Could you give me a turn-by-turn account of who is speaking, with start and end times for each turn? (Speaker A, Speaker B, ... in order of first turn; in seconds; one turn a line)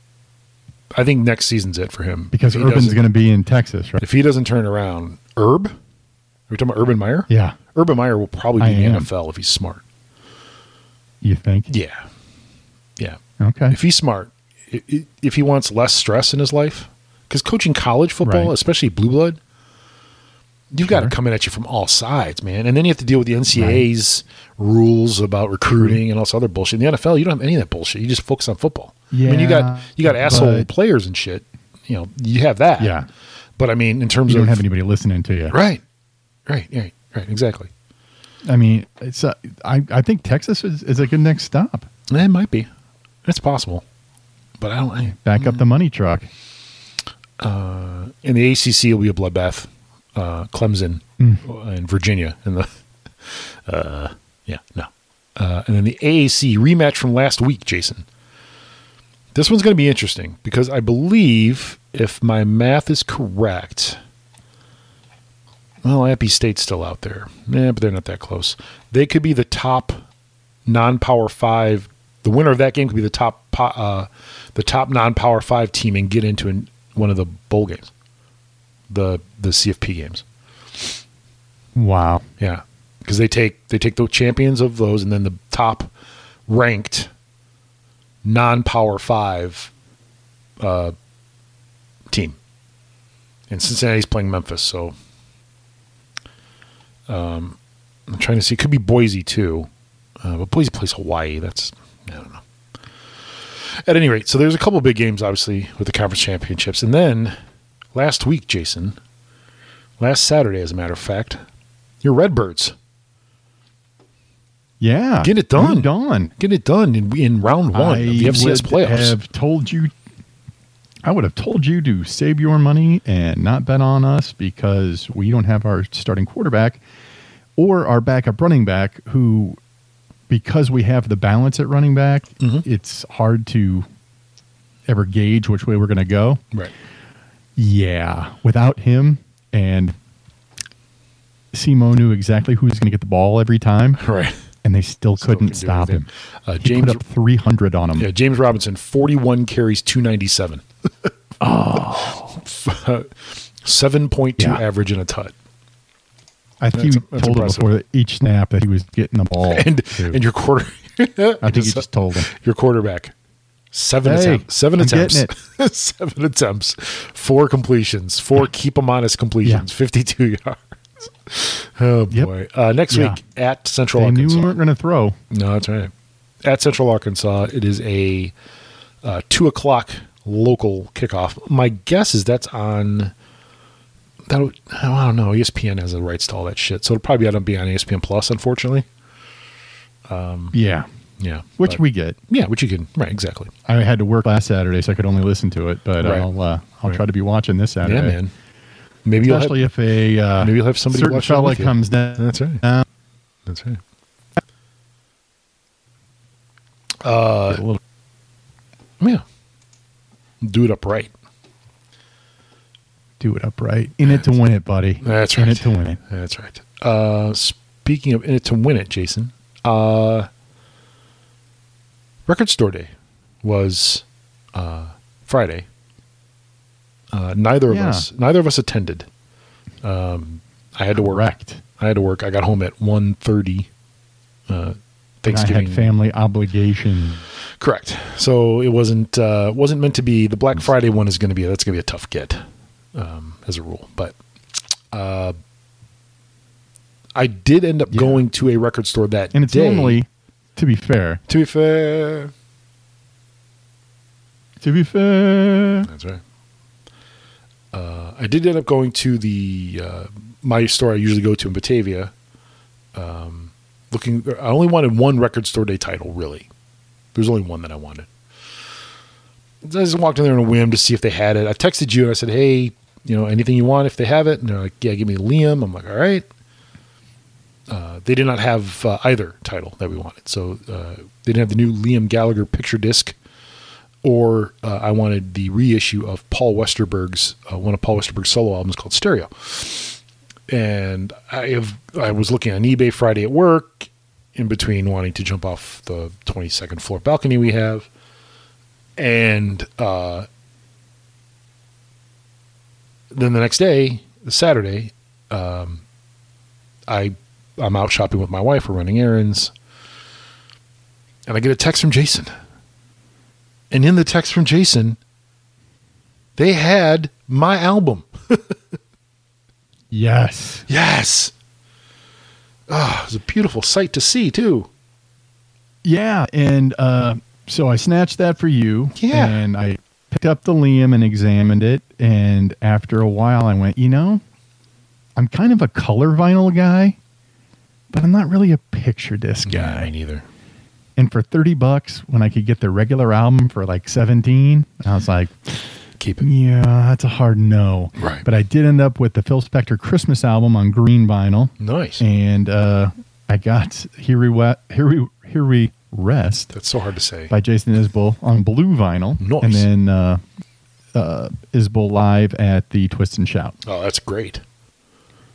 Speaker A: 0.9-3.0
Speaker B: 2.3-4.0
Speaker A: 4.0-5.7
Speaker A: 6.5-9.8
Speaker B: 7.3-7.6
Speaker B: 8.6-9.1
Speaker B: 11.2-11.7
Speaker A: 11.7-12.0
Speaker B: 13.4-13.8
Speaker A: 13.7-19.4
Speaker B: 18.2-18.5
Speaker A: 20.7-33.0
Speaker B: 20.9-21.1
Speaker B: 23.5-23.8
Speaker B: 25.7-26.0
Speaker B: 29.1-30.7
Speaker B: 32.8-33.1
Speaker A: 33.6-34.6
Speaker B: 34.3-35.6
Speaker A: 35.5-35.8
Speaker A: 36.5-37.7
Speaker B: 38.4-41.9
Speaker A: 42.1-42.7
Speaker A: 43.2-43.8
Speaker A: 44.6-45.6
Speaker B: 45.2-46.3
Speaker A: 47.4-52.7
Speaker A: 53.2-58.0
Speaker A: 59.3-64.0
Speaker A: 65.8-70.0
Speaker A: 70.7-77.9
Speaker A: 78.9-80.2
Speaker B: 81.7-82.2
Speaker A: 82.4-85.9
Speaker A: 86.5-87.1
Speaker A: 88.2-89.7
Speaker A: 90.6-90.9
Speaker A: 92.1-92.4
Speaker A: 93.5-94.9
Speaker A: 97.1-97.6
Speaker A: 98.1-99.7
Speaker A: 100.2-102.4
Speaker A: 103.8-107.4
Speaker A: 107.9-109.0
Speaker A: 110.0-111.4
Speaker A: 112.0-112.7
Speaker B: 114.8-116.3
Speaker A: 115.2-119.2
Speaker B: 117.7-119.9
Speaker B: 121.0-126.8
Speaker B: 127.6-129.6
Speaker B: 130.3-133.9
Speaker A: 132.4-132.7
Speaker B: 134.9-136.4
Speaker B: 137.6-139.9
Speaker B: 141.5-144.0
Speaker A: 144.0-144.4
Speaker B: 144.6-146.1
Speaker A: 145.2-147.0
Speaker B: 146.6-148.1
Speaker A: 148.0-151.1
Speaker B: 151.4-152.4
Speaker A: 152.3-155.3
Speaker B: 154.4-154.6
Speaker B: 156.6-160.2
Speaker A: 156.7-157.7
Speaker A: 159.4-163.1
Speaker B: 161.4-162.3
Speaker A: 163.7-174.5
Speaker B: 164.0-165.3
Speaker B: 172.9-173.2
Speaker B: 173.9-175.2
Speaker A: 175.3-175.9
Speaker A: 176.4-178.3
Speaker A: 179.0-183.1
Speaker A: 184.3-188.8
Speaker A: 190.1-190.6
Speaker B: 190.5-190.9
Speaker A: 191.2-193.5
Speaker B: 191.6-192.2
Speaker B: 193.7-198.2
Speaker A: 196.0-196.3
Speaker A: 197.8-198.3
Speaker A: 199.0-199.6
Speaker B: 199.2-202.8
Speaker A: 200.4-202.6
Speaker A: 203.4-203.8
Speaker A: 207.0-207.6
Speaker B: 207.5-207.8
Speaker A: 210.4-211.1
Speaker B: 213.2-216.0
Speaker A: 215.0-220.3
Speaker A: 222.3-222.9
Speaker A: 223.4-225.7
Speaker A: 227.1-229.1
Speaker B: 227.7-228.1
Speaker A: 229.8-231.2
Speaker B: 231.0-231.6
Speaker A: 231.8-233.7
Speaker A: 234.5-235.9
Speaker B: 235.3-237.2
Speaker A: 237.6-242.4
Speaker A: 242.9-244.2
Speaker A: 244.9-245.3
Speaker A: 247.1-250.0
Speaker B: 247.9-248.2
Speaker B: 249.3-251.2
Speaker A: 251.3-252.3
Speaker B: 254.6-255.9
Speaker A: 255.8-256.2
Speaker A: 257.7-262.1
Speaker A: 262.9-266.5
Speaker A: 267.1-268.1
Speaker A: 269.6-276.2
Speaker A: 277.7-283.1
Speaker A: 284.0-297.9
Speaker A: 299.0-300.3
Speaker A: 303.1-305.8
Speaker A: 306.9-309.5
Speaker A: 311.3-312.3
Speaker A: 313.7-315.0
Speaker A: 316.4-318.6
Speaker B: 319.9-320.6
Speaker A: 320.7-321.3
Speaker A: 322.7-324.7
Speaker B: 325.8-334.2
Speaker A: 328.9-329.4
Speaker B: 335.1-337.0
Speaker B: 337.9-339.9
Speaker A: 339.4-340.2
Speaker B: 340.9-356.5
Speaker A: 346.0-346.3
Speaker A: 348.0-348.2
Speaker A: 351.6-352.0
Speaker A: 356.5-357.3
Speaker B: 357.3-360.2
Speaker A: 359.2-359.7
Speaker B: 360.9-363.6
Speaker A: 363.6-364.4